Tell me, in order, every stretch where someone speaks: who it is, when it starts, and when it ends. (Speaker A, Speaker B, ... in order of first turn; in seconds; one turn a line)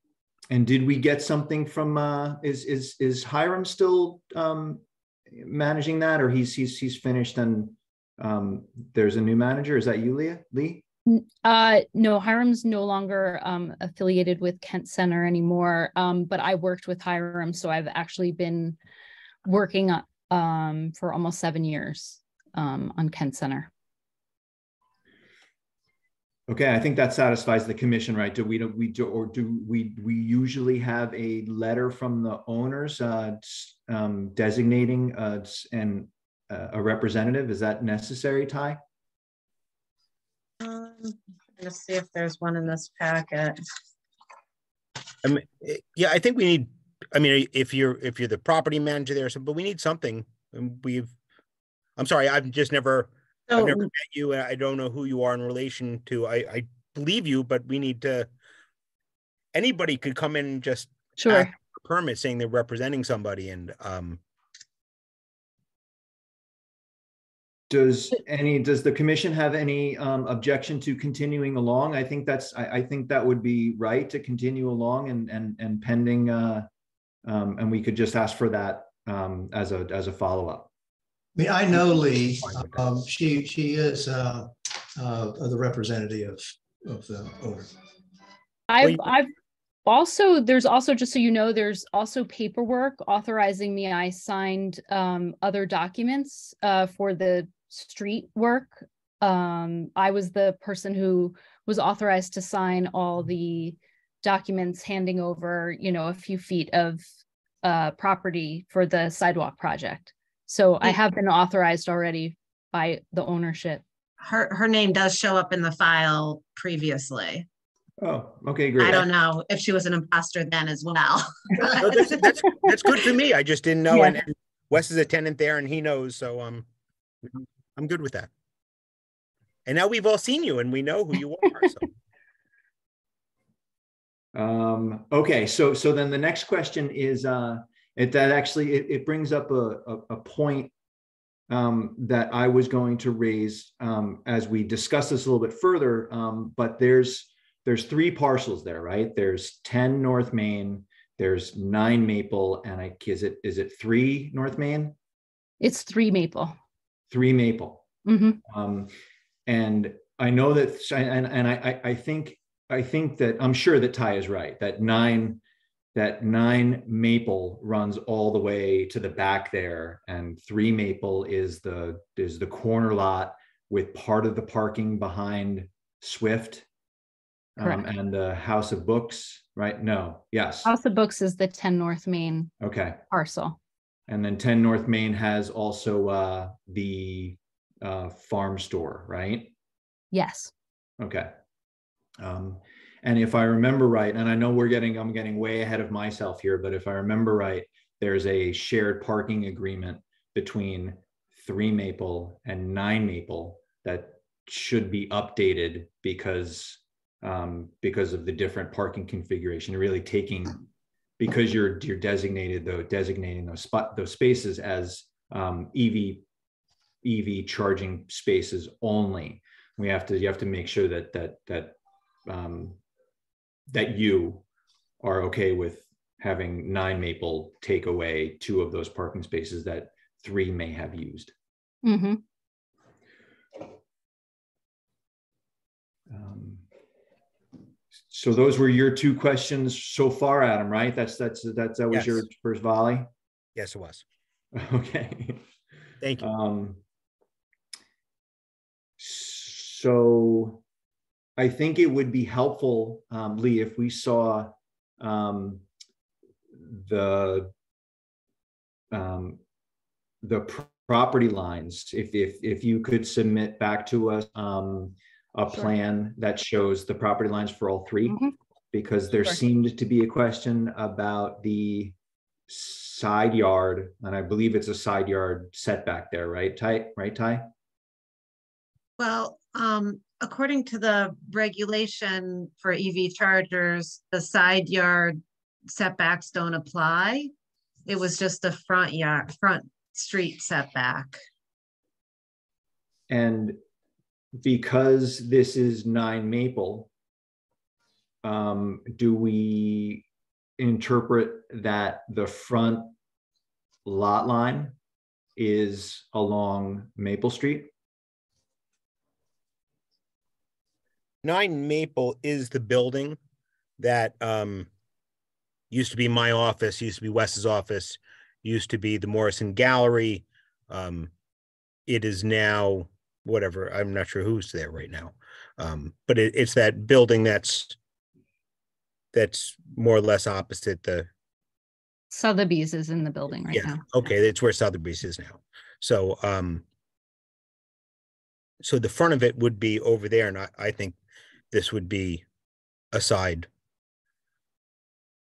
Speaker A: 0.5-10.8
Speaker B: 11.1-18.8
Speaker B: 19.4-23.7
Speaker A: 26.5-38.8
Speaker C: 40.6-43.6
Speaker D: 45.2-51.1
Speaker D: 52.0-58.3
Speaker D: 59.5-64.2
Speaker B: 61.2-61.5
Speaker A: 67.7-76.7
Speaker A: 77.2-80.7
Speaker E: 81.3-87.7
Speaker B: 88.7-89.3
Speaker B: 89.8-107.0
Speaker B: 107.6-113.8
Speaker C: 114.2-117.5
Speaker A: 118.0-119.1
Speaker C: 118.8-122.5
Speaker D: 121.8-126.7
Speaker D: 127.2-128.3
Speaker D: 129.7-131.9
Speaker A: 134.3-140.7
Speaker A: 141.5-154.9
Speaker B: 155.6-156.6
Speaker A: 157.1-157.8
Speaker B: 158.0-158.4
Speaker A: 158.4-158.9
Speaker A: 159.5-165.4
Speaker A: 165.9-176.6
Speaker A: 177.6-180.7
Speaker B: 180.6-182.5
Speaker A: 182.6-183.0
Speaker B: 183.1-183.6
Speaker A: 184.1-189.5
Speaker B: 190.1-190.5
Speaker A: 191.0-191.3
Speaker A: 192.2-210.6
Speaker A: 211.2-216.2
Speaker A: 217.0-222.8
Speaker A: 223.7-224.4
Speaker A: 225.0-231.3
Speaker B: 231.8-232.2
Speaker A: 236.1-236.7
Speaker A: 238.1-243.1
Speaker D: 241.9-242.2
Speaker D: 243.5-244.0
Speaker A: 244.5-245.4
Speaker A: 246.2-246.8
Speaker A: 249.0-250.6
Speaker A: 251.4-255.6
Speaker A: 256.5-257.5
Speaker A: 258.9-259.4
Speaker A: 260.2-268.2
Speaker B: 268.1-268.3
Speaker A: 268.7-271.9
Speaker A: 272.5-277.5
Speaker C: 279.0-285.2
Speaker C: 285.7-287.3
Speaker C: 287.9-291.2
Speaker A: 293.1-293.6
Speaker A: 294.4-296.9
Speaker A: 298.2-300.0
Speaker A: 300.6-302.9
Speaker A: 303.8-304.7
Speaker A: 305.4-307.7
Speaker D: 311.2-313.2
Speaker D: 313.8-314.7
Speaker D: 315.7-321.1
Speaker D: 321.9-327.8
Speaker D: 329.1-331.1
Speaker B: 332.1-333.8
Speaker D: 333.5-336.6
Speaker D: 338.6-341.0
Speaker D: 341.5-342.2
Speaker D: 342.9-343.5